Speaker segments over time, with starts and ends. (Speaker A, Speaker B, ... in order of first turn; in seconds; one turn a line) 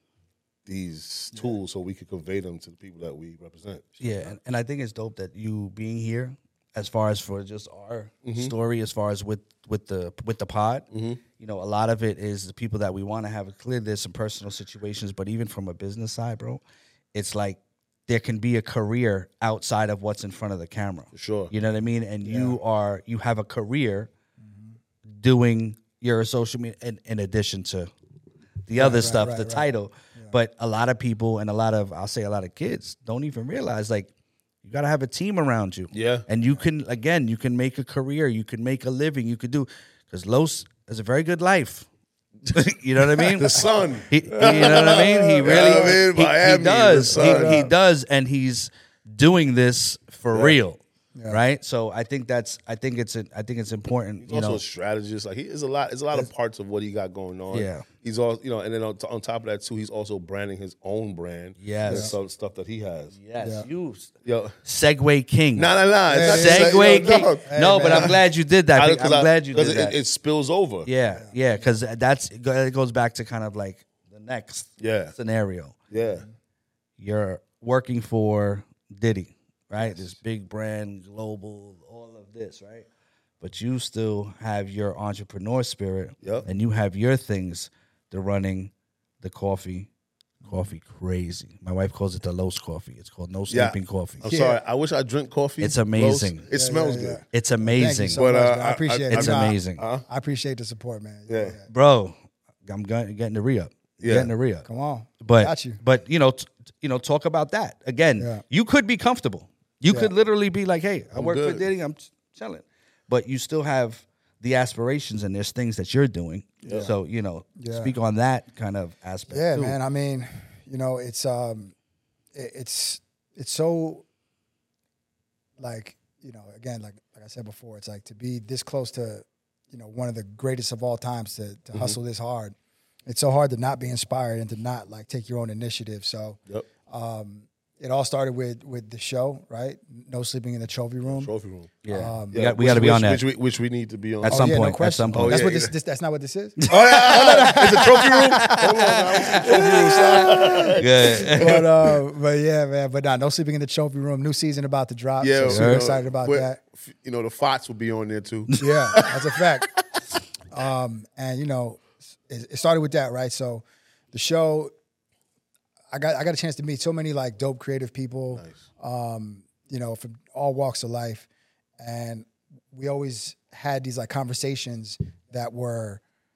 Speaker A: 0.7-4.0
Speaker B: 4.0-16.6
Speaker A: 8.2-8.5
Speaker A: 10.9-11.2
Speaker B: 17.1-24.1
Speaker A: 21.1-21.5
Speaker C: 22.2-22.6
Speaker C: 24.4-24.8
Speaker B: 25.1-27.9
Speaker B: 28.7-34.1
Speaker C: 28.8-30.3
Speaker B: 34.6-41.9
Speaker A: 35.9-36.3
Speaker B: 42.5-54.6
Speaker A: 43.3-47.7
Speaker C: 45.0-46.0
Speaker C: 47.1-47.7
Speaker A: 50.3-50.6
Speaker C: 51.1-51.4
Speaker A: 54.2-63.1
Speaker B: 57.5-57.9
Speaker B: 61.6-62.1
Speaker C: 61.9-62.1
Speaker B: 63.1-64.1
Speaker C: 63.4-63.7
Speaker A: 64.2-64.5
Speaker B: 64.6-70.0
Speaker A: 65.5-68.2
Speaker C: 66.1-68.2
Speaker A: 68.7-70.9
Speaker B: 70.9-75.8
Speaker A: 74.8-75.1
Speaker A: 75.9-76.3
Speaker B: 77.0-82.9
Speaker C: 79.8-80.2
Speaker B: 83.4-89.9
Speaker A: 86.2-86.5
Speaker C: 90.4-90.7
Speaker B: 90.5-94.2
Speaker A: 93.5-97.2
Speaker C: 94.2-94.6
Speaker B: 95.6-96.5
Speaker C: 96.5-101.7
Speaker B: 97.3-98.2
Speaker A: 98.1-100.0
Speaker B: 99.1-99.8
Speaker A: 101.3-101.6
Speaker B: 101.7-104.7
Speaker A: 104.0-104.3
Speaker C: 104.7-105.8
Speaker B: 105.2-119.8
Speaker C: 108.2-108.4
Speaker A: 111.1-111.7
Speaker A: 116.6-116.9
Speaker C: 116.7-117.0
Speaker C: 117.6-117.9
Speaker C: 119.3-121.8
Speaker C: 122.3-124.0
Speaker C: 125.6-132.6
Speaker A: 131.7-132.0
Speaker C: 133.1-141.3
Speaker A: 141.1-141.7
Speaker B: 141.8-143.2
Speaker C: 141.9-142.3
Speaker A: 142.3-144.6
Speaker B: 144.2-145.4
Speaker C: 144.3-148.6
Speaker A: 145.1-145.7
Speaker A: 146.7-152.0
Speaker B: 148.4-151.7
Speaker C: 149.2-156.6
Speaker A: 155.2-159.2
Speaker B: 155.5-155.9
Speaker C: 158.6-159.7
Speaker C: 160.5-164.7
Speaker C: 165.9-171.3
Speaker A: 168.3-168.7
Speaker C: 171.8-176.0